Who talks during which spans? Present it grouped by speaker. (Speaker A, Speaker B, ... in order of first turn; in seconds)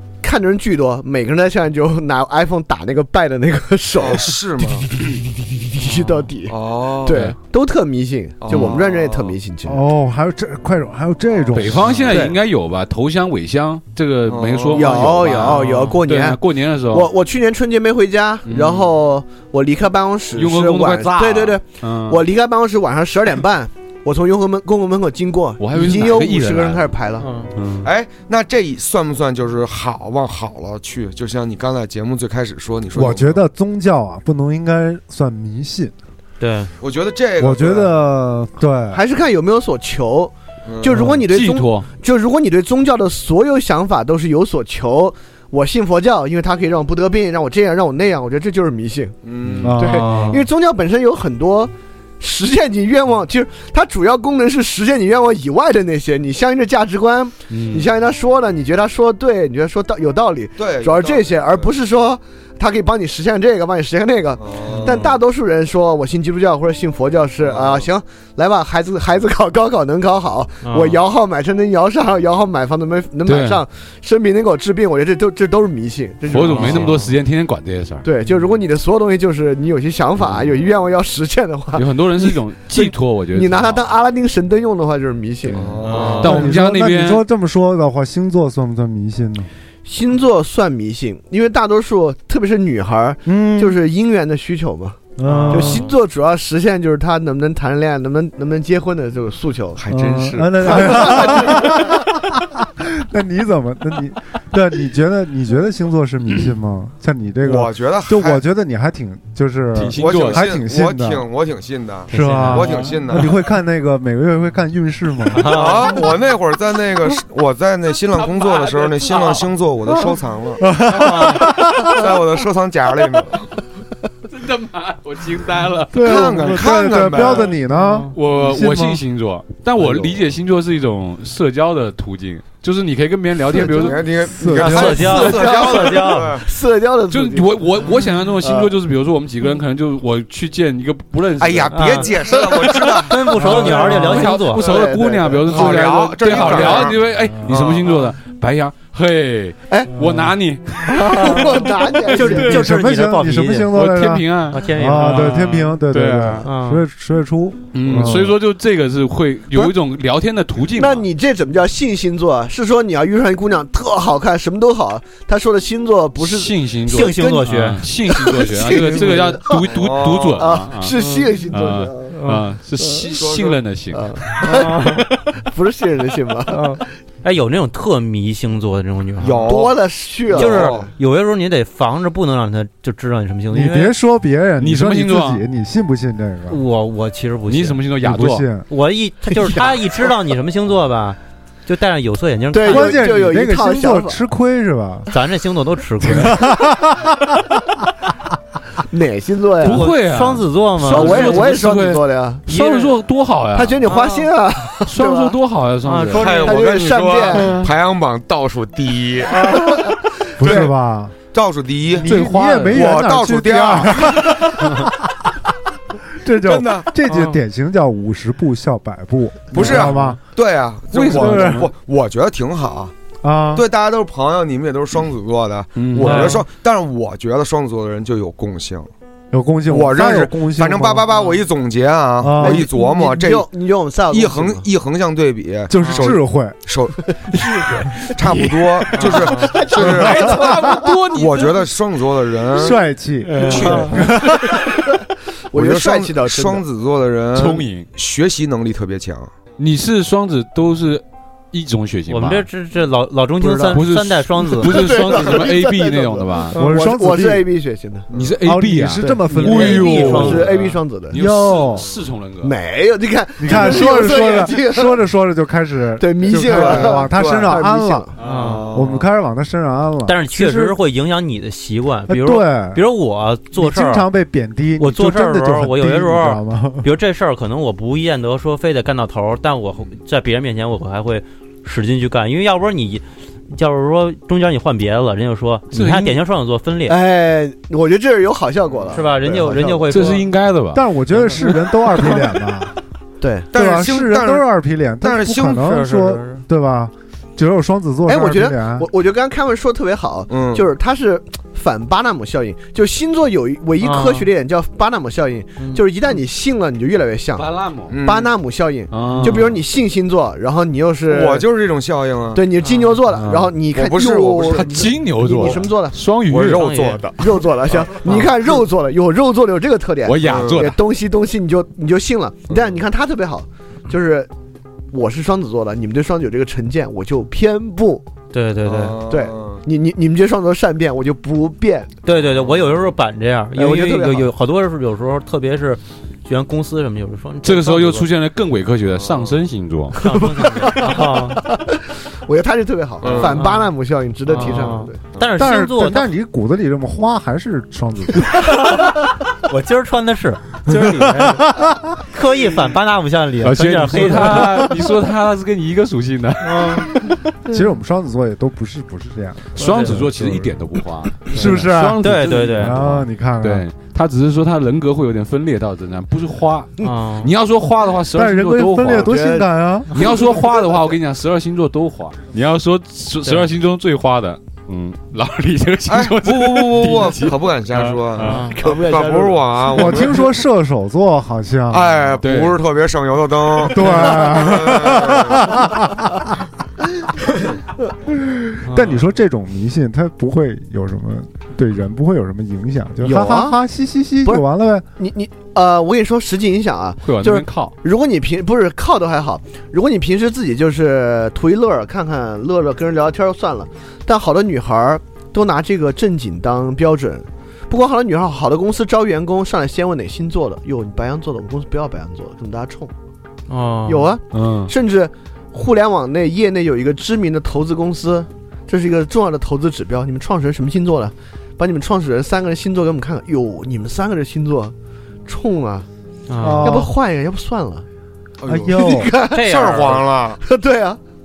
Speaker A: 0.2-9.8, 14.7-27.3, 38.9-49.2, 49.7-77.1, 78.0-86.5, 89.8-99.8, 100.6-102.0, 133.6-133.9, 135.0-137.8, 138.4-138.7, 142.5-146.9, 149.7-149.9, 150.8-152.7, 160.7-172.2, 173.9-176.8, 179.4-180.9, 189.3-190.1, 192.5-194.2, 198.9-199.9, 200.8-202.4, 203.5-205.3, 206.2-207.6, 209.4-209.9, 232.4-234.7, 237.3-240.9, 243.4-244.0, 245.5-246.6, 253.4-253.8, 254.6-258.1, 259.3-261.1, 262.4-264.9, 266.0-268.1, 286.9-290.1, 293.2-293.5, 298.1-307.5, 308.0-311.5, 312.3-316.0, 317.2-324.3, 324.9-328.0, 329.1-331.9, 333.5-334.3, 339.9-345.0, 368.8-370.7, 378.4-379.9, 393.0-393.6, 395.0-412.9, 413.9-424.7, 425.2-425.9, 426.6-427.9, 428.7-429.6, 430.4-431.0
Speaker B: 3.9-4.8, 6.5-7.2, 8.4-9.3, 14.2-15.2, 27.8-33.4, 36.8-37.9, 40.6-41.1, 49.2-49.8, 60.6-61.7, 64.4-65.1, 67.4-67.9, 85.5-86.4, 99.8-101.5, 107.4-108.4, 109.9-113.4, 115.4-120.7, 121.8-123.5, 126.0-127.5, 133.6-136.5, 141.4-143.3, 145.5-147.9, 169.7-170.5, 173.1-173.6, 179.2-180.9, 206.2-209.4, 210.4-210.7, 211.3-212.1, 212.7-214.7, 216.4-216.9, 219.5-222.9, 223.5-228.9, 229.7-233.5, 234.1-237.0, 238.1-240.5, 241.1-242.8, 243.4-244.2, 245.5-249.3, 258.1-258.4, 266.3-267.5, 268.3-269.1, 293.5-294.4, 295.0-296.1, 300.3-300.7, 307.9-308.3, 311.1-312.4, 313.7-314.9, 316.2-317.2, 320.2-320.6, 322.5-322.8, 328.6-329.6, 332.2-332.7, 338.9-339.4, 343.0-343.5, 375.9-380.3, 381.7-385.6, 428.4-428.8, 429.4-430.4
Speaker C: 7.1-7.3, 11.5-17.1, 18.4-18.9, 20.3-22.2, 25.6-26.9, 27.5-27.9, 41.0-41.9, 49.4-49.7, 57.5-57.9, 64.8-65.0, 73.2-73.6, 76.3-78.1, 81.7-83.8, 85.9-87.2, 109.7-110.5, 118.1-119.5, 124.3-126.0, 128.1-134.0, 137.1-142.1, 143.3-151.6, 152.2-152.6, 153.7-156.4, 157.7-161.1, 166.2-170.9, 171.5-174.2, 184.6-185.4, 187.5-188.5, 199.6-203.9, 204.9-206.4, 212.0-212.8, 219.6-220.1, 220.9-221.7, 225.8-226.3, 239.7-241.7, 243.3-243.8, 247.3-247.9, 249.6-252.5, 253.7-256.6, 258.1-262.5, 268.2-268.5, 285.7-286.2, 289.9-290.8, 307.4-307.9, 308.9-309.6, 313.1-313.5, 314.5-316.7, 320.0-320.8, 337.4-340.0, 353.4-357.2, 359.6-369.1, 369.9-378.5, 382.2-382.6, 397.0-397.7, 414.3-414.7
Speaker D: 9.7-12.0, 32.9-35.9, 37.4-39.0, 49.6-50.2, 86.2-89.5, 93.2-93.8, 95.2-95.9, 99.9-111.2, 112.1-115.6, 120.6-122.0, 125.9-129.0, 134.2-135.2, 150.0-150.2, 152.1-158.4, 183.5-186.6, 188.0-188.7, 192.6-195.1, 196.0-197.6, 210.4-211.2, 211.9-214.9, 216.2-220.2, 221.0-221.7, 223.2-223.6, 226.0-226.4, 229.3-231.1, 232.2-232.7, 235.7-236.6, 242.6-244.6, 256.5-257.5, 258.4-260.4, 261.1-261.9, 263.4-268.1, 268.7-270.8, 272.1-272.8, 273.5-276.9, 290.7-292.7, 293.5-298.9, 345.4-348.5, 357.4-360.6, 361.2-363.7, 368.1-369.9, 379.7-382.2, 383.6-386.3, 388.3-394.9, 426.4-426.9, 428.4-429.1
Speaker E: 15.4-15.9, 27.2-27.5, 36.4-36.7, 49.9-50.4, 70.6-71.0, 76.5-77.1, 85.8-86.3, 95.2-95.9, 112.1-112.7, 115.3-115.9, 120.9-121.4, 127.7-128.1, 134.6-136.3, 141.7-142.1, 143.0-144.7, 152.1-153.7, 154.5-155.3, 156.4-156.8, 166.9-167.8, 171.0-171.3, 172.1-172.4, 174.4-175.0, 176.5-179.5, 180.3-183.9, 186.5-187.8, 188.7-193.1, 195.1-196.5, 199.6-201.6, 202.5-202.9, 203.8-204.3, 205.8-206.6, 217.1-217.4, 231.1-231.4, 252.1-254.9, 259.3-260.7, 268.2-268.6, 270.1-274.1, 274.8-287.0, 288.9-290.2, 296.0-296.4, 303.8-304.3, 305.6-305.8, 312.6-313.0, 316.5-317.0, 328.3-329.0, 332.0-338.1, 340.0-341.4, 343.2-343.7, 344.3-346.1, 349.5-351.5, 352.1-354.7, 356.4-356.9, 359.6-360.0, 362.0-362.7, 366.8-367.3, 378.2-378.6, 388.6-389.0, 413.5-414.1, 426.3-426.8, 429.3-430.0